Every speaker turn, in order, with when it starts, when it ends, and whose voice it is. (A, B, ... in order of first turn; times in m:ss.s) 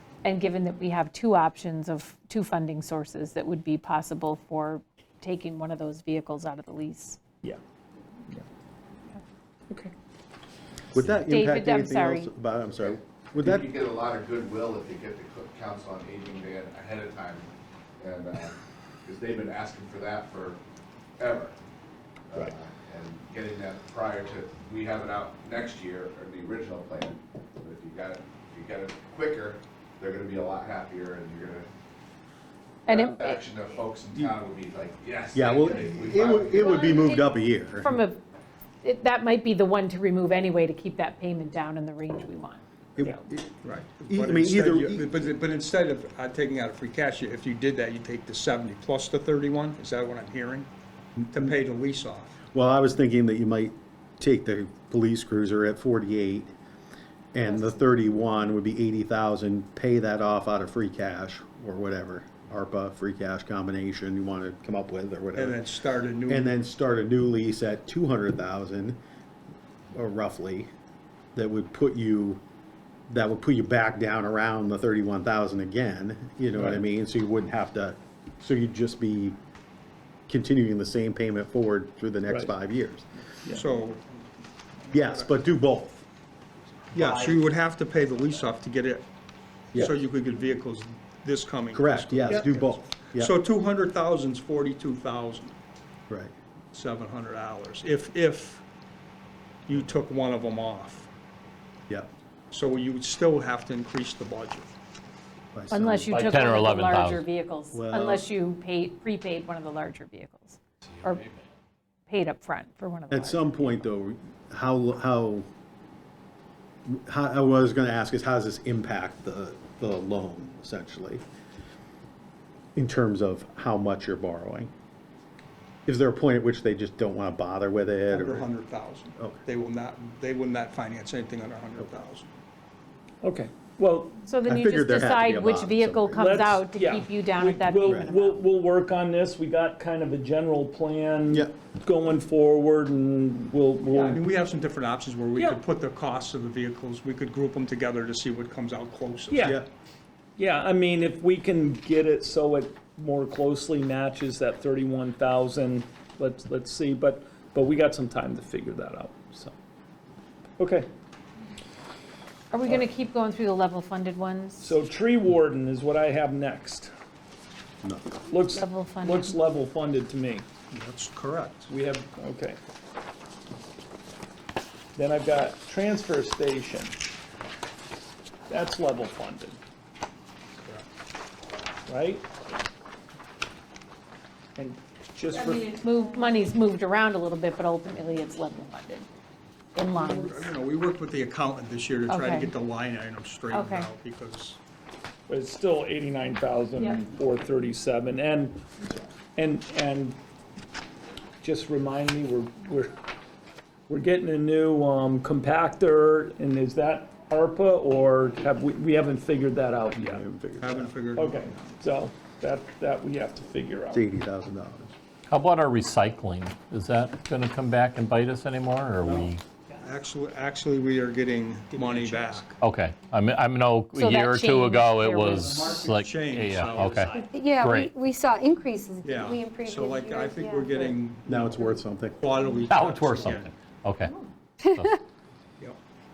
0:00.2-0:07.2 A
0:10.9-0:13.7 B
0:11.2-0:12.3 A
0:12.8-0:20.6 C
0:21.2-0:21.6 C
0:22.3-0:31.7 C
0:32.8-0:33.4 A
0:32.8-0:37.2 C
0:35.3-0:38.0 B
0:36.5-0:37.2 A
0:37.8-0:38.2 A
0:38.8-0:43.2 A
0:43.0-0:43.5 B
0:43.6-0:50.7 D
0:44.1-0:45.0 B
0:51.3-0:52.3 D
0:52.5-0:56.5 B
0:57.3-1:05.6 B
1:05.3-1:06.6 D
1:06.3-1:09.0 B
1:09.9-1:10.7 B
1:11.3-1:12.4 B
1:13.1-1:19.4 B
1:16.6-1:16.8 E
1:20.3-1:23.1 B
1:23.5-1:24.0 D
1:24.9-1:25.4 D
1:24.9-1:26.0 B
1:26.9-1:29.0 D
1:27.0-1:27.4 E
1:29.7-1:35.5 D
1:31.7-1:33.3 B
1:36.7-1:38.6 D
1:39.6-1:41.1 D
1:42.5-1:44.7 D
1:45.5-1:46.2 B
1:45.7-1:51.2 A
1:46.1-1:47.2 F
1:47.7-1:48.3 B
1:52.1-1:53.8 A
1:53.1-1:55.5 B
1:56.8-2:01.2 B
2:02.8-2:04.7 B
2:05.8-2:08.5 B
2:08.1-2:12.3 D
2:13.2-2:14.2 E
2:14.3-2:18.4 A
2:14.4-2:16.3 B
2:16.1-2:24.2 E
2:17.8-2:18.1 B
2:24.0-2:29.6 D
2:29.3-2:29.6 E
2:29.4-2:29.7 B
2:30.4-2:39.5 E
2:40.6-2:40.9 E
2:42.5-2:44.7 A
2:44.6-2:46.9 E
2:47.8-2:48.1 B
2:48.3-2:50.4 E
2:48.5-2:49.4 A
2:50.7-2:51.7 D
2:51.7-2:52.6 E
2:54.9-2:56.9 E
2:58.5-2:59.6 E
3:01.9-3:02.2 E
3:04.6-3:05.7 E
3:05.3-3:09.0 A
3:09.7-3:10.5 A
3:09.9-3:14.6 D
3:12.1-3:12.5 A
3:13.5-3:13.9 A
3:15.3-3:20.2 E
3:21.4-3:22.9 E
3:23.9-3:30.2 E
3:29.9-3:31.0 B
3:30.6-3:31.7 D
3:31.1-3:34.0 E
3:33.9-3:34.9 B
3:35.3-3:39.4 F
3:39.0-3:39.3 D
3:39.8-3:42.6 D
3:41.8-3:42.4 E
3:42.6-3:47.9 F
3:44.0-3:45.8 A
3:45.4-3:47.4 D
3:47.1-3:50.9 G
3:49.0-3:53.5 D
3:51.3-3:52.2 B
3:52.6-3:54.1 F
3:54.6-3:55.0 F